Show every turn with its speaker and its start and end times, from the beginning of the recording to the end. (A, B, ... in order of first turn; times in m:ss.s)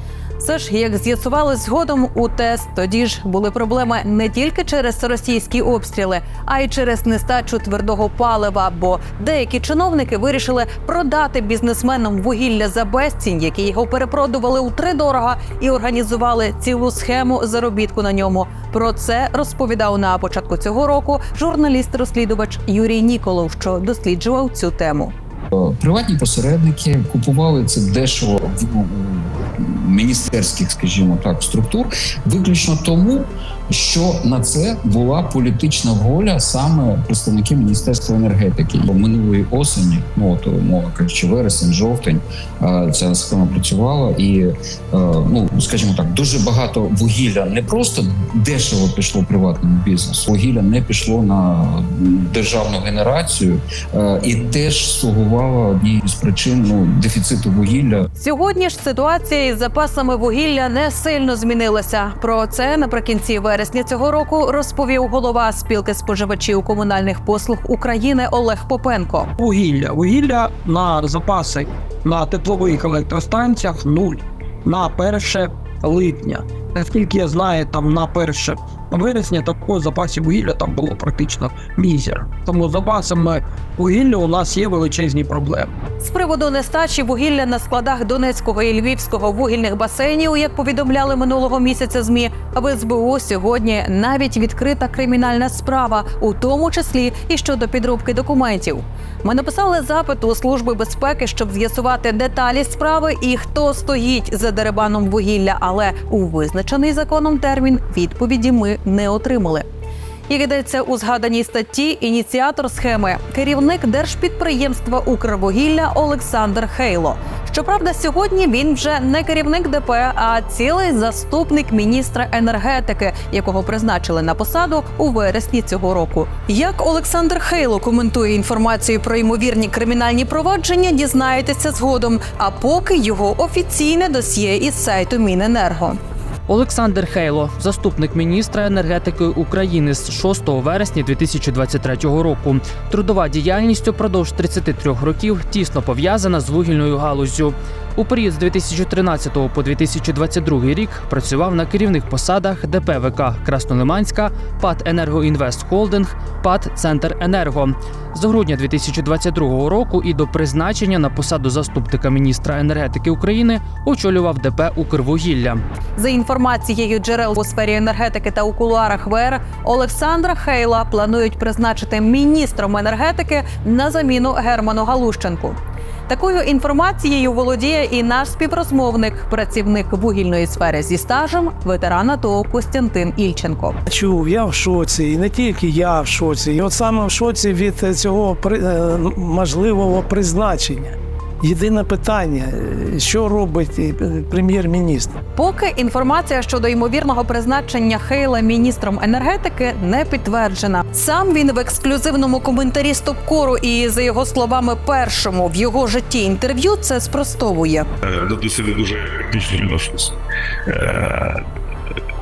0:00.4-0:25.1 A
0:25.5-0:58.0 B
0:58.2-1:09.3 A
1:09.4-1:25.7 C
1:26.0-1:49.7 A
1:50.3-2:16.0 A
2:16.5-2:45.6 D
2:46.0-2:55.6 A
2:56.1-3:03.8 A
3:03.9-3:15.2 E
3:15.4-3:27.9 A
3:28.0-3:30.1 F
3:30.7-3:31.4 F